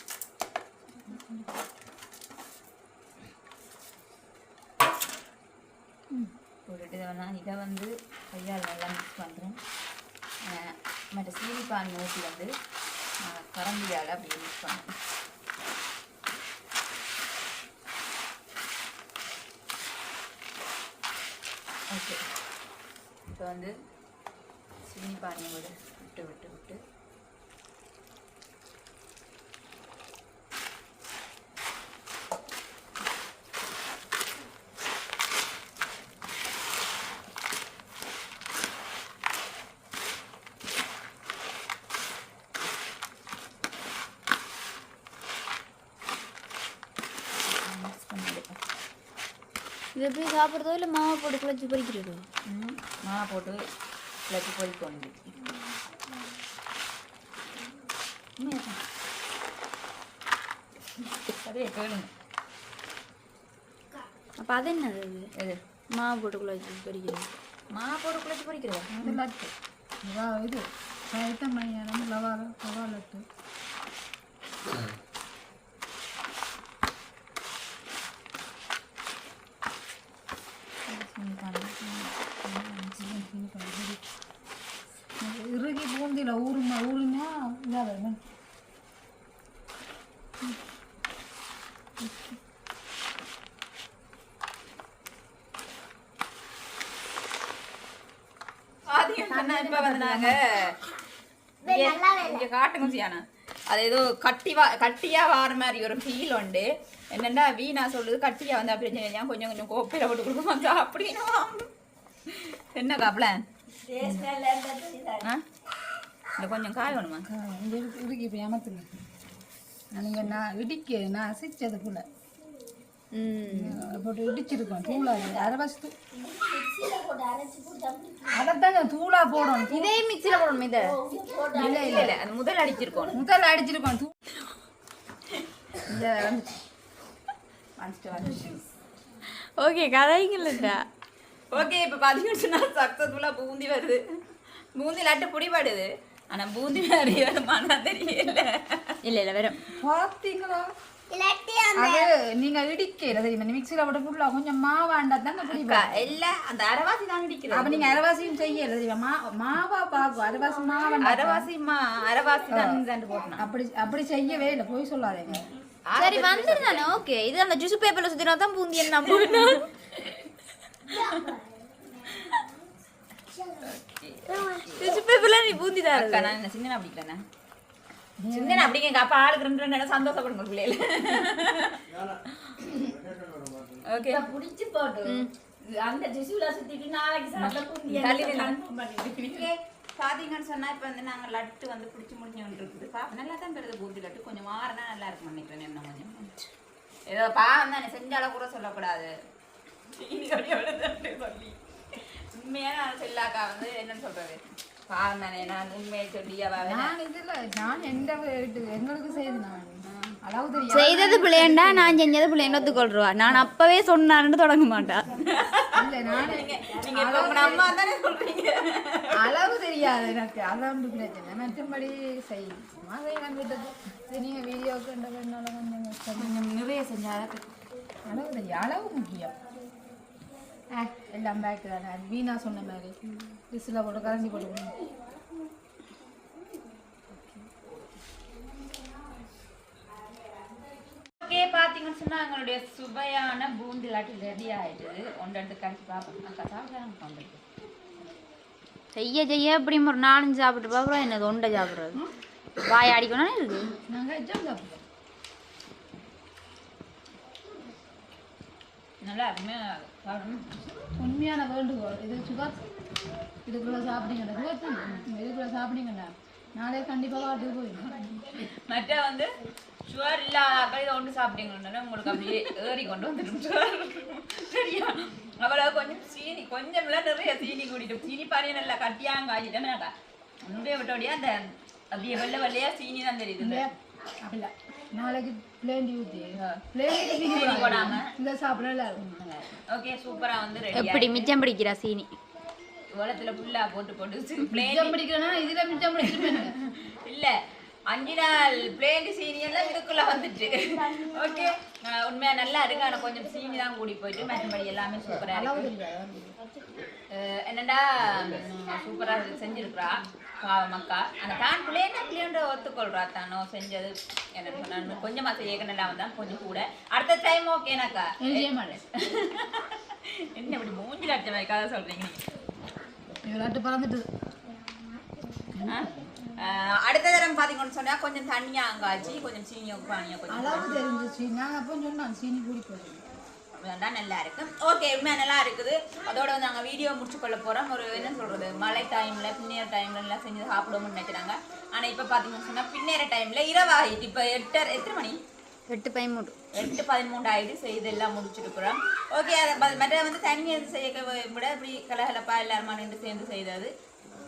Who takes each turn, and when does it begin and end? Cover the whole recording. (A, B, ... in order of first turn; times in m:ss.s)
0:06.7-0:09.6 A
0:10.4-0:12.5 A
0:13.2-0:14.9 A
0:21.9-0:22.2 A
0:23.3-0:23.7 A
0:24.8-0:26.8 A
0:47.5-0:48.6 A
0:50.0-0:52.3 B
0:52.5-0:53.6 A
0:54.3-0:55.3 A
0:58.4-0:58.8 A
1:01.3-1:02.1 A
1:04.4-1:05.3 B
1:05.9-1:07.3 B
1:07.7-1:08.9 A
1:08.9-1:09.5 C
1:10.0-1:13.2 C
1:20.9-1:23.3 A
1:23.0-1:24.0 C
1:25.2-1:28.2 C
1:38.9-1:40.8 A
1:39.3-1:40.4 C
1:41.6-1:42.5 D
1:41.7-1:51.7 A
1:52.3-1:53.4 A
1:53.8-1:55.3 E
1:56.4-1:57.2 A
1:57.2-1:58.9 C
1:59.9-2:02.1 C
2:03.2-2:03.8 B
2:03.2-2:03.8 A
2:03.5-2:05.9 C
2:05.1-2:05.5 E
2:06.1-2:08.6 E
2:08.3-2:10.0 C
2:09.7-2:11.0 B
2:10.7-2:12.1 E
2:11.6-2:12.2 C
2:11.6-2:13.2 A
2:13.1-2:14.2 C
2:15.9-2:16.4 A
2:17.8-2:18.6 A
2:19.6-2:20.9 B
2:21.5-2:24.0 A
2:24.8-2:29.0 A
2:29.0-2:29.6 B
2:29.8-2:30.7 C
2:31.1-2:32.1 D
2:31.8-2:36.1 C
2:35.5-2:38.0 A
2:37.5-2:41.5 C
2:40.3-2:41.0 D
2:41.0-2:43.5 A
2:42.5-2:42.8 C
2:43.4-2:45.5 C
2:45.9-2:47.0 A
2:45.9-2:49.7 B
2:48.8-2:49.9 A
2:50.9-2:52.7 D
2:53.3-2:55.0 D
2:53.6-2:55.2 A
2:54.8-2:56.4 B
2:55.9-2:57.2 A
2:58.2-2:58.7 C
2:58.3-3:02.3 A
3:03.8-3:04.3 A
3:04.0-3:09.5 E
3:05.0-3:05.3 B
3:07.4-3:08.6 A
3:09.1-3:16.3 A
3:17.1-3:19.1 A
3:19.9-3:26.9 A
3:26.6-3:32.0 C
3:29.8-3:30.2 A
3:30.7-3:39.3 A
3:31.0-3:34.3 B
3:35.7-3:37.7 C
3:39.1-3:46.4 C
3:46.2-3:47.5 A
3:48.0-3:49.3 C
3:50.7-3:53.0 C
3:53.5-3:54.8 C
3:54.2-3:56.8 D
4:01.2-4:07.4 A
4:08.9-4:12.0 B
4:12.6-4:13.8 B
4:13.9-4:14.8 C
4:19.0-4:20.5 A
4:21.0-4:22.6 C
4:23.5-4:28.5 C
4:28.6-4:29.3 A
4:29.9-4:43.7 A
4:43.4-4:49.0 C
4:46.4-4:48.1 A
4:49.0-4:51.3 A
4:50.7-4:52.1 B
4:52.9-4:55.0 A
4:54.4-4:56.6 C
4:56.0-5:05.7 A
5:00.5-5:01.6 D
5:03.0-5:03.7 D
5:05.3-5:06.4 C
5:06.4-5:06.7 D
5:07.1-5:22.2 A
5:08.5-5:09.8 D
5:18.2-5:18.8 C
5:23.2-5:24.1 C
5:24.5-5:26.4 D
5:25.6-5:30.8 A
5:30.3-5:33.0 C
5:33.6-5:45.2 A
5:45.7-5:46.4 B
5:46.5-5:53.7 A